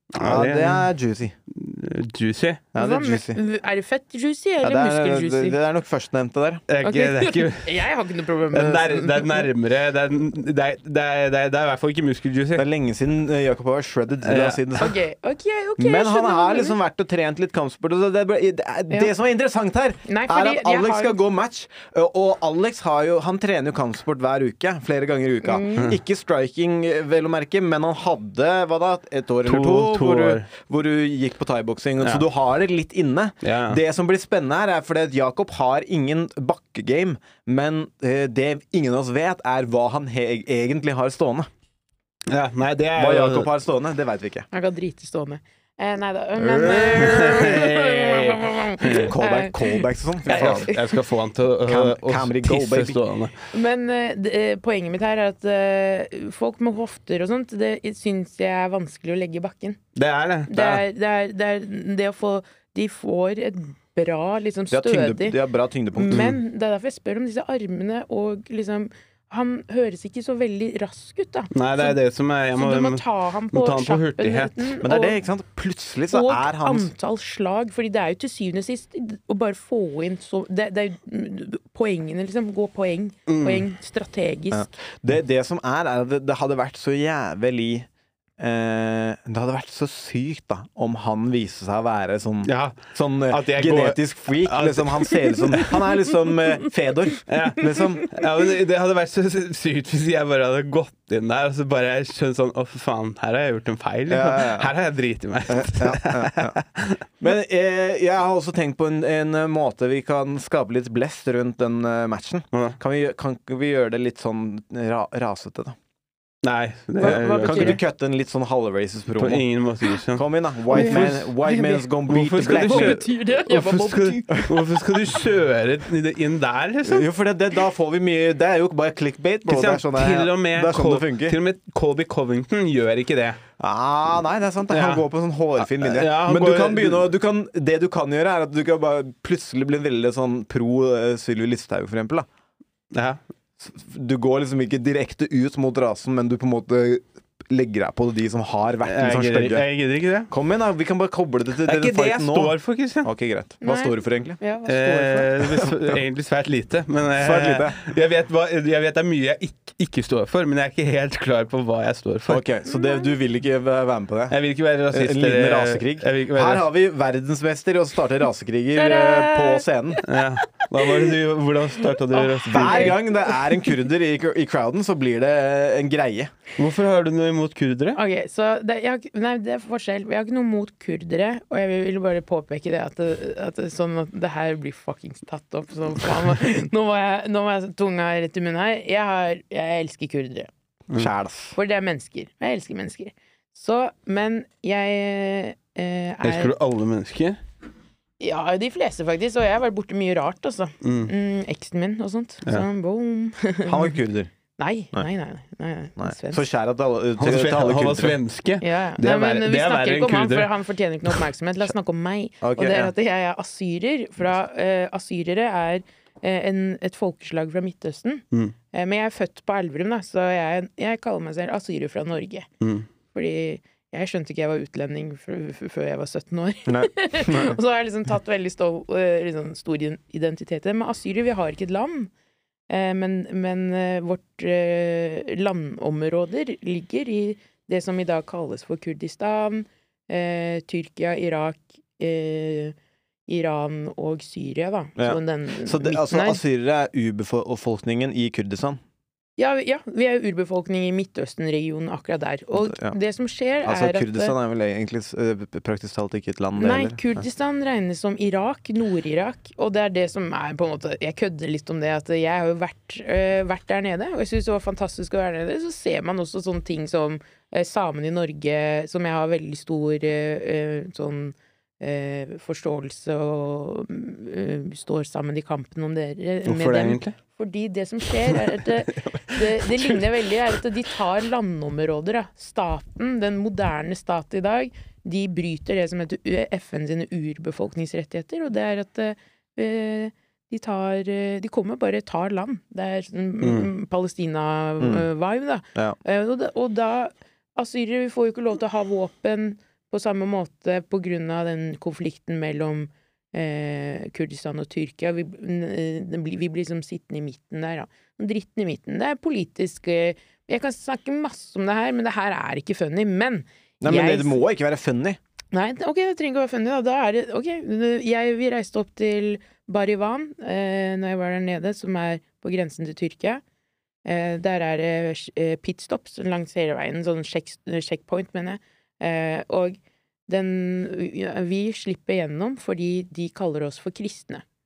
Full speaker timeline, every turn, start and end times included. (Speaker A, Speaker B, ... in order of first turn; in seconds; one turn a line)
Speaker A: 0.1-0.9
Speaker B: 0.2-1.3
Speaker A: 1.5-2.6
Speaker B: 2.7-3.4
Speaker C: 2.8-5.5
Speaker B: 4.6-6.6
Speaker A: 6.7-7.8
Speaker C: 6.8-9.5
Speaker A: 8.5-12.6
Speaker B: 12.6-14.9
Speaker A: 14.2-14.6
Speaker C: 14.8-16.8
Speaker B: 15.8-41.5
Speaker C: 20.1-21.2
Speaker C: 25.4-25.9
Speaker A: 29.4-30.5
Speaker A: 33.4-33.8
Speaker A: 42.3-43.5
Speaker B: 43.0-44.5
Speaker C: 44.5-51.0
Speaker A: 46.4-49.1
Speaker B: 49.0-50.7
Speaker A: 50.2-53.4
Speaker B: 51.6-53.0
Speaker C: 53.5-59.8
Speaker A: 60.0-60.8
Speaker C: 60.5-65.4
Speaker B: 64.7-66.4
Speaker C: 65.9-72.0
Speaker A: 71.5-74.7
Speaker C: 72.5-75.2
Speaker B: 74.8-76.9
Speaker C: 76.1-84.7
Speaker A: 83.3-83.6
Speaker B: 84.5-87.9
Speaker B: 88.4-98.1
Speaker A: 92.4-95.7
Speaker A: 97.3-107.0
Speaker B: 104.1-104.7
Speaker B: 105.5-106.6
Speaker B: 107.2-115.8
Speaker A: 112.5-112.8
Speaker A: 116.4-117.8
Speaker C: 117.0-117.8
Speaker B: 117.0-119.5
Speaker A: 119.2-121.3
Speaker B: 120.1-123.0
Speaker C: 120.7-124.8
Speaker A: 122.1-127.1
Speaker B: 126.8-131.4
Speaker A: 129.4-133.4
Speaker B: 133.6-142.3
Speaker A: 134.7-135.0
Speaker A: 135.6-137.1
Speaker A: 142.9-143.2
Speaker B: 143.6-149.7
Speaker A: 148.8-150.3
Speaker B: 150.3-154.4
Speaker A: 151.6-153.1
Speaker C: 153.6-155.3
Speaker A: 154.7-162.4
Speaker B: 157.2-157.8
Speaker B: 162.3-164.4
Speaker C: 162.7-163.1
Speaker A: 164.3-166.7
Speaker B: 164.9-170.0
Speaker C: 168.7-171.2
Speaker A: 170.1-173.0
Speaker C: 172.1-173.4
Speaker B: 172.4-176.3
Speaker A: 176.6-178.0
Speaker C: 177.9-190.5
Speaker B: 190.9-191.6
Speaker C: 191.6-196.5
Speaker A: 196.2-197.4
Speaker C: 198.2-203.9
Speaker A: 200.8-201.1
Speaker B: 203.7-204.3
Speaker C: 204.6-206.4
Speaker B: 206.0-208.2
Speaker A: 207.2-210.5
Speaker C: 208.6-222.5
Speaker B: 212.4-212.9
Speaker A: 222.6-222.9
Speaker C: 223.1-232.1
Speaker B: 226.7-227.6
Speaker C: 232.7-242.7
Speaker C: 243.3-246.4
Speaker B: 245.0-248.8
Speaker C: 249.4-254.3
Speaker B: 252.6-252.9
Speaker B: 253.6-257.2
Speaker C: 256.6-314.4
Speaker A: 276.4-277.1
Speaker A: 293.4-293.7
Speaker B: 294.8-295.1
Speaker B: 313.8-315.2
Speaker C: 315.5-323.4
Speaker C: 324.0-334.4